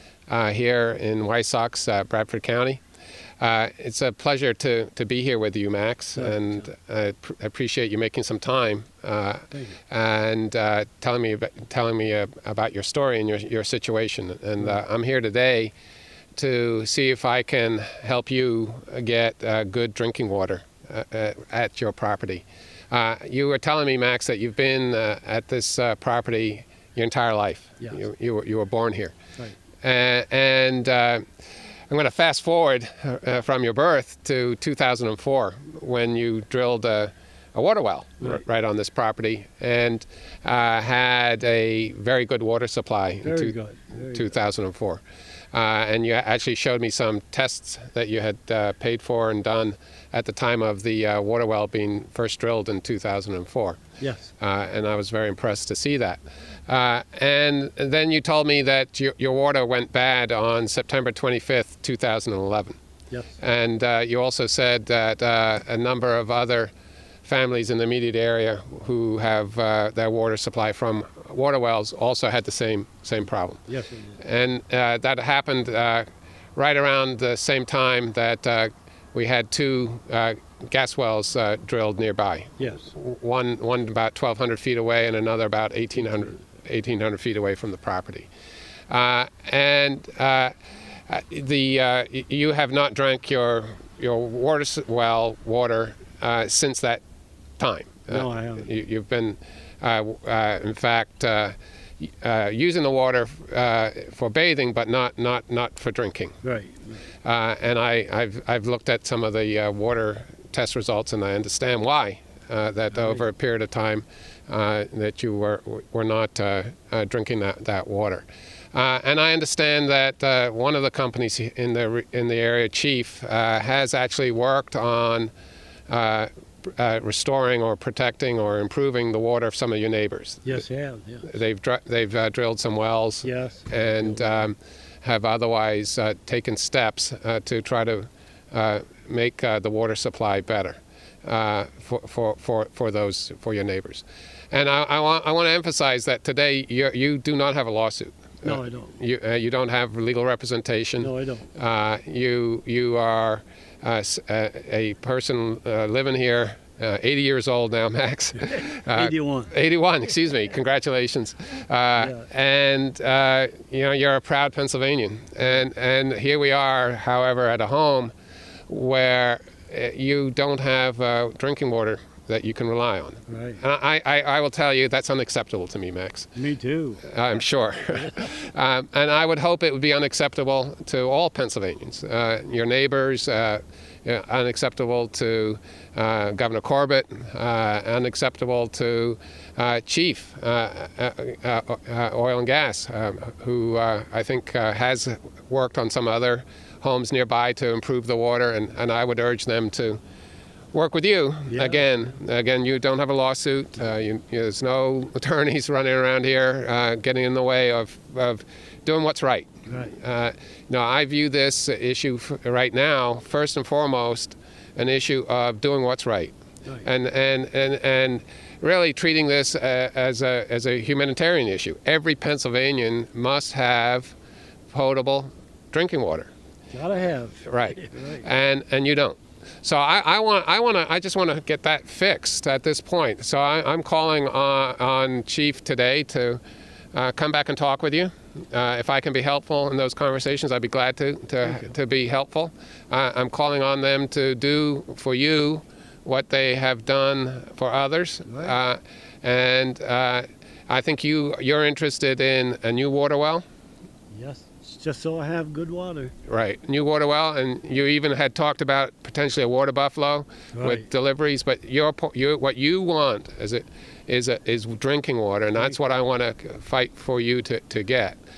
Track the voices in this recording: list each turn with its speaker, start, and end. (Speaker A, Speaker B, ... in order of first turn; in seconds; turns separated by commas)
Speaker A: 0.3-2.8, Speaker A: 3.4-15.7, Speaker B: 6.2-6.7, Speaker B: 9.5-9.8, Speaker A: 16.4-29.1, Speaker A: 29.8-31.2, Speaker A: 31.9-43.5, Speaker B: 43.2-44.3, Speaker A: 44.1-45.0, Speaker A: 45.5-53.8, Speaker B: 54.0-54.3, Speaker A: 54.4-62.8, Speaker A: 63.4-66.7, Speaker A: 67.2-73.6, Speaker B: 73.7-74.2, Speaker A: 74.2-88.3, Speaker B: 82.6-82.9, Speaker A: 88.9-90.5, Speaker A: 91.1-97.0, Speaker A: 97.6-106.4, Speaker B: 98.1-98.7, Speaker B: 106.4-107.0, Speaker A: 107.2-125.3, Speaker B: 112.9-113.2, Speaker A: 125.9-130.6, Speaker B: 130.4-131.3, Speaker A: 131.2-168.1, Speaker B: 133.2-134.3, Speaker B: 148.4-148.9, Speaker B: 151.0-151.5, Speaker B: 158.4-159.5, Speaker B: 162.0-162.2, Speaker A: 168.7-176.3, Speaker B: 173.3-173.6, Speaker B: 176.3-177.0, Speaker A: 177.0-200.0, Speaker B: 177.8-178.2, Speaker A: 200.7-224.1, Speaker B: 201.5-201.8, Speaker B: 209.7-209.9, Speaker A: 224.7-226.3, Speaker B: 226.7-228.2, Speaker A: 227.4-236.4, Speaker A: 236.9-253.4, Speaker B: 241.4-241.7, Speaker B: 248.2-248.6, Speaker B: 254.1-256.1, Speaker A: 256.2-268.2, Speaker B: 260.5-260.9